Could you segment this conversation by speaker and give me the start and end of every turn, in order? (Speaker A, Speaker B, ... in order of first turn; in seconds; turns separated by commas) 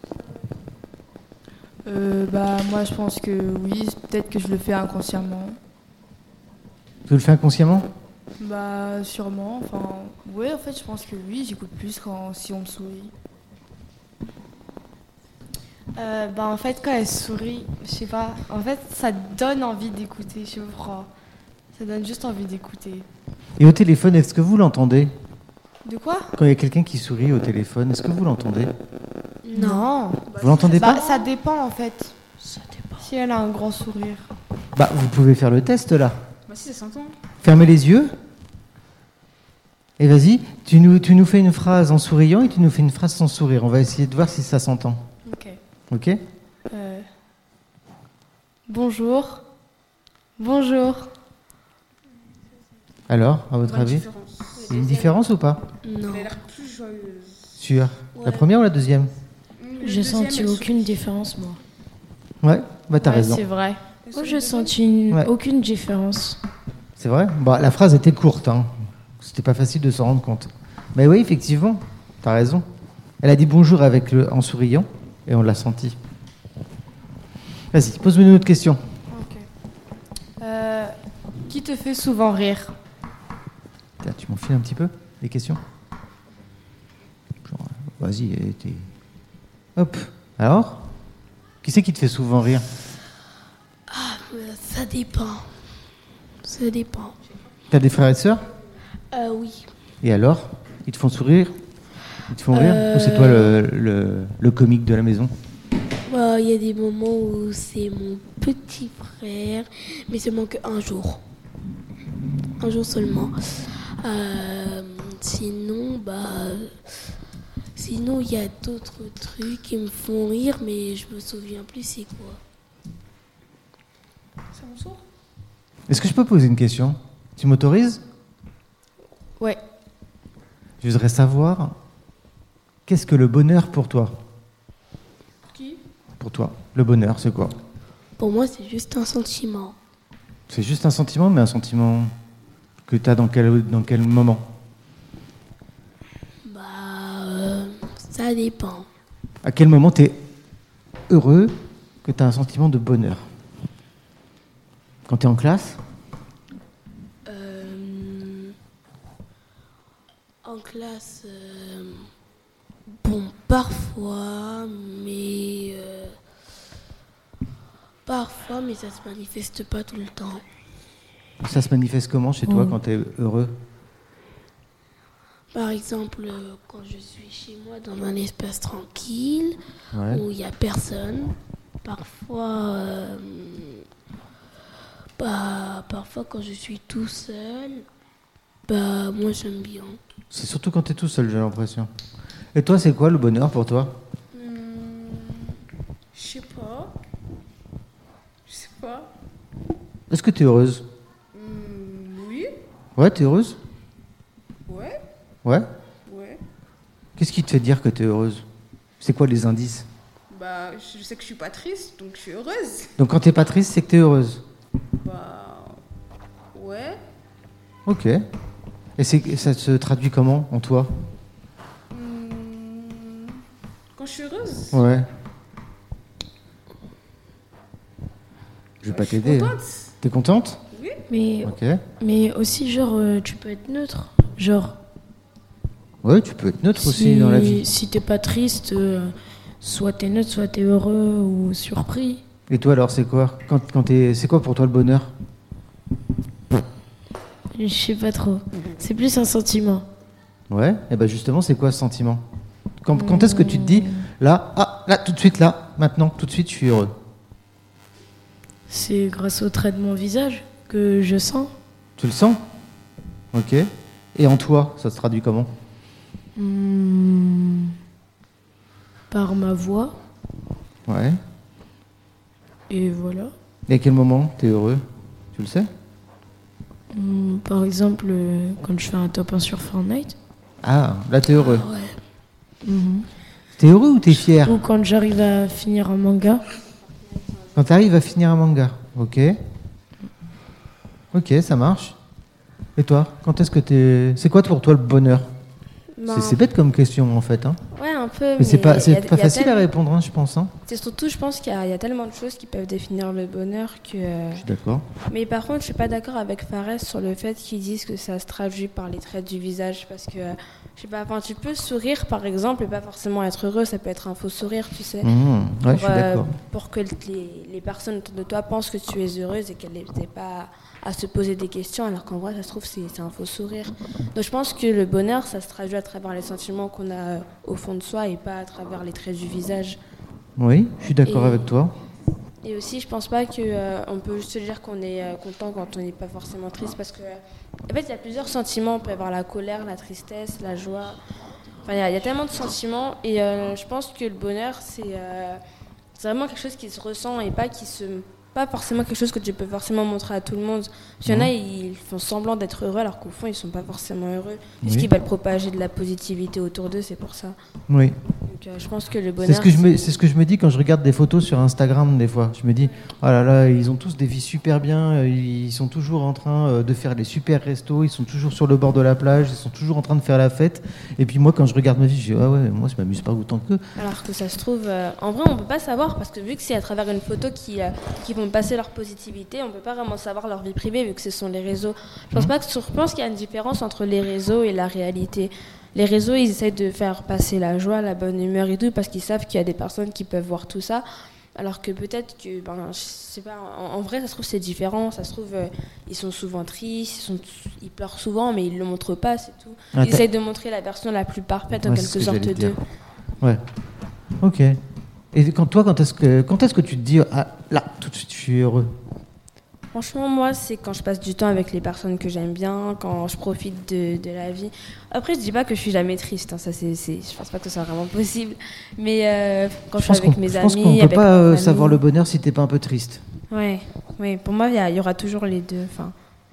Speaker A: 1.8-5.6, Speaker B: 7.1-7.9, Speaker A: 8.4-13.1, Speaker C: 10.2-13.1, Speaker C: 15.9-21.1, Speaker C: 21.7-23.1, Speaker B: 23.6-25.1, Speaker C: 25.8-26.4, Speaker B: 26.4-28.7, Speaker D: 29.5-29.9, Speaker C: 29.5-30.2, Speaker E: 30.3-31.3, Speaker B: 30.4-31.0, Speaker C: 30.8-32.1, Speaker C: 33.0-34.2, Speaker B: 34.7-36.2, Speaker E: 36.5-37.1, Speaker B: 37.4-38.1, Speaker B: 40.0-45.0, Speaker C: 45.2-45.6, Speaker B: 45.9-46.2, Speaker C: 46.7-47.1, Speaker C: 48.7-49.4, Speaker C: 50.4-51.1, Speaker B: 53.1-54.1, Speaker E: 53.6-55.1, Speaker B: 54.7-55.6, Speaker D: 55.8-56.3, Speaker E: 56.0-57.5, Speaker B: 57.6-59.1, Speaker D: 58.1-58.5, Speaker E: 59.6-60.9, Speaker F: 59.8-61.6, Speaker B: 62.4-63.5, Speaker A: 63.2-63.7, Speaker C: 63.2-63.6, Speaker E: 64.0-64.8, Speaker F: 64.1-66.4, Speaker B: 67.0-72.6, Speaker B: 73.2-76.0, Speaker B: 77.7-78.8, Speaker C: 79.1-79.5, Speaker C: 80.4-80.9, Speaker C: 81.5-82.7, Speaker B: 84.0-85.6, Speaker B: 87.4-88.9, Speaker B: 89.8-90.8, Speaker B: 91.6-92.7, Speaker D: 93.9-95.5, Speaker D: 96.4-97.2, Speaker B: 97.7-98.5, Speaker D: 99.1-99.7, Speaker B: 100.0-101.5, Speaker B: 102.3-105.3, Speaker D: 102.5-103.6, Speaker D: 106.0-111.2, Speaker D: 112.6-116.7, Speaker D: 117.8-122.4, Speaker E: 124.5-125.0, Speaker B: 125.9-128.0, Speaker B: 130.8-131.8, Speaker B: 132.9-134.2, Speaker E: 135.5-135.8, Speaker B: 136.2-137.5, Speaker D: 138.2-139.7, Speaker B: 140.5-142.1, Speaker B: 142.8-144.5, Speaker D: 146.4-148.9, Speaker B: 149.4-150.2, Speaker B: 151.1-153.2, Speaker B: 155.1-155.8, Speaker D: 157.2-158.5, Speaker D: 160.4-162.1, Speaker D: 162.9-166.2, Speaker D: 168.1-170.4, Speaker B: 171.4-173.6, Speaker F: 172.5-172.7, Speaker D: 175.5-179.6, Speaker B: 179.9-180.2, Speaker D: 180.1-183.8, Speaker D: 185.2-187.8, Speaker D: 188.7-190.0, Speaker B: 190.3-191.9, Speaker B: 192.5-194.0, Speaker E: 194.3-195.6, Speaker E: 196.1-196.9, Speaker E: 198.4-199.1, Speaker B: 200.1-200.8, Speaker E: 201.3-202.6, Speaker B: 202.9-203.6, Speaker E: 204.7-205.0, Speaker E: 206.1-206.4, Speaker B: 207.2-208.4, Speaker B: 209.0-209.9, Speaker E: 210.3-212.9, Speaker B: 213.0-214.4, Speaker E: 214.9-215.8, Speaker E: 216.5-217.0, Speaker B: 217.8-218.2, Speaker B: 219.0-220.9, Speaker E: 221.9-223.4, Speaker E: 223.9-224.8, Speaker B: 224.7-225.1, Speaker B: 228.8-230.6, Speaker E: 228.8-229.9, Speaker E: 230.7-231.0, Speaker F: 231.1-234.8, Speaker B: 231.4-231.8, Speaker B: 236.0-237.7, Speaker F: 236.7-242.2, Speaker B: 242.5-245.1, Speaker F: 247.5-249.9, Speaker B: 250.5-252.2, Speaker B: 252.8-256.9, Speaker F: 252.9-254.1, Speaker F: 258.7-261.5, Speaker B: 262.0-262.4, Speaker B: 263.3-265.5, Speaker F: 266.4-267.7, Speaker F: 269.1-270.0, Speaker B: 270.9-271.2, Speaker F: 272.7-273.3, Speaker B: 273.7-274.8, Speaker B: 275.3-275.7, Speaker F: 276.9-280.1, Speaker B: 280.6-281.7, Speaker D: 281.3-282.0, Speaker F: 282.6-283.1, Speaker B: 283.6-284.6, Speaker F: 284.4-286.4, Speaker G: 287.1-287.5, Speaker B: 287.5-289.4, Speaker B: 291.1-291.9, Speaker B: 292.8-295.3, Speaker G: 296.0-296.4, Speaker B: 296.1-297.6, Speaker G: 297.7-299.7, Speaker B: 298.4-300.5, Speaker G: 300.7-304.4, Speaker B: 304.4-304.9, Speaker G: 305.1-315.1, Speaker B: 315.0-316.3, Speaker G: 315.7-329.8, Speaker B: 330.4-331.7, Speaker G: 331.0-331.5, Speaker G: 332.4-341.0, Speaker G: 341.6-345.4, Speaker G: 346.0-357.4, Speaker B: 351.1-351.3, Speaker B: 354.6-354.9, Speaker B: 357.7-358.0, Speaker G: 358.1-359.9, Speaker B: 359.2-373.6, Speaker G: 373.8-402.6, Speaker B: 399.7-400.0, Speaker B: 401.6-402.6, Speaker B: 404.2-404.6, Speaker B: 405.1-408.7, Speaker G: 409.7-421.8, Speaker B: 419.8-423.0, Speaker G: 423.3-425.9